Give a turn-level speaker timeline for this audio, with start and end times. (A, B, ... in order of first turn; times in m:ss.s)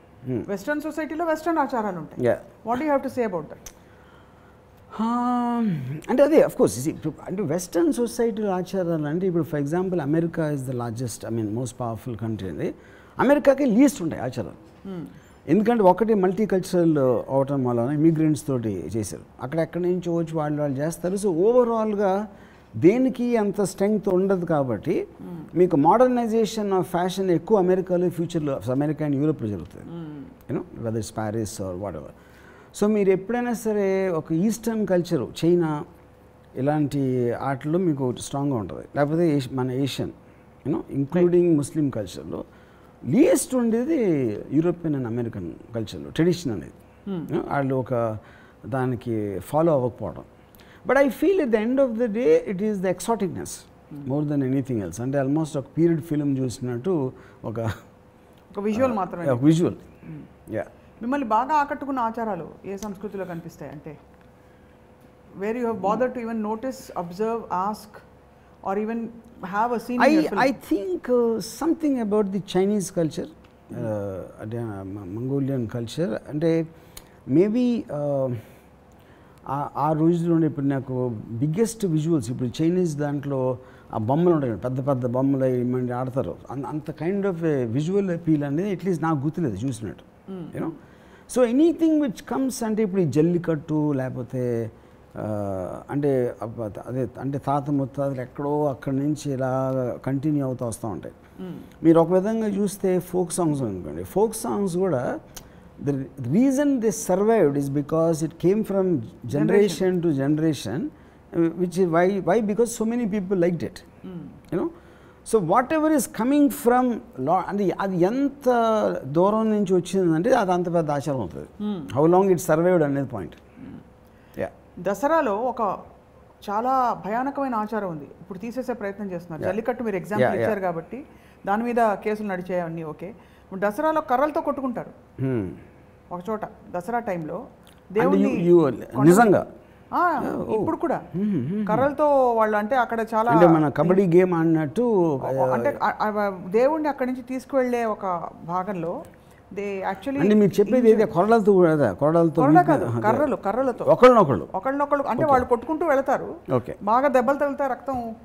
0:00.4-0:03.6 A
0:02.2-0:02.4 B
0:04.9-0:14.6 B
0:14.9-0:15.1 A
0:15.5-0:22.2 B
0:22.8-0:29.9 B
0:29.9-0:30.3 A
0:30.5-0:32.1 B
0:32.7-0:35.8 B
0:36.6-0:42.4 B
0:43.1-0:46.7 B
0:47.3-0:50.3 B
0:50.8-0:57.8 B
0:58.5-0:59.6 A
0:58.7-0:59.8 B
1:01.0-1:04.0 A
1:05.4-1:08.0 A
1:08.6-1:10.5 A
1:10.0-1:16.6 B
1:17.3-1:18.4 B
1:19.5-1:30.8 B
1:30.3-1:30.8 A
1:31.3-1:41.2 B
1:41.4-1:41.7 A
1:41.8-1:45.2 B
1:45.8-1:53.8 B
1:49.3-1:49.9 A
1:55.3-2:03.4 B
2:01.6-2:01.9 A
2:04.8-2:05.7 A
2:06.4-2:14.9 A
2:10.2-2:10.6 B
2:15.2-2:15.6 B
2:16.1-2:17.4 A
2:17.9-2:19.3 A
2:18.0-2:19.5 B
2:19.9-2:21.0 A
2:20.2-2:21.9 B
2:21.6-2:24.0 A
2:23.3-2:25.8 B
2:25.2-2:29.0 A
2:29.5-2:31.1 A
2:30.2-2:33.3 B
2:32.4-2:33.9 A
2:33.8-2:34.5 B
2:34.5-2:38.1 A
2:35.2-2:35.4 B
2:36.5-2:36.8 B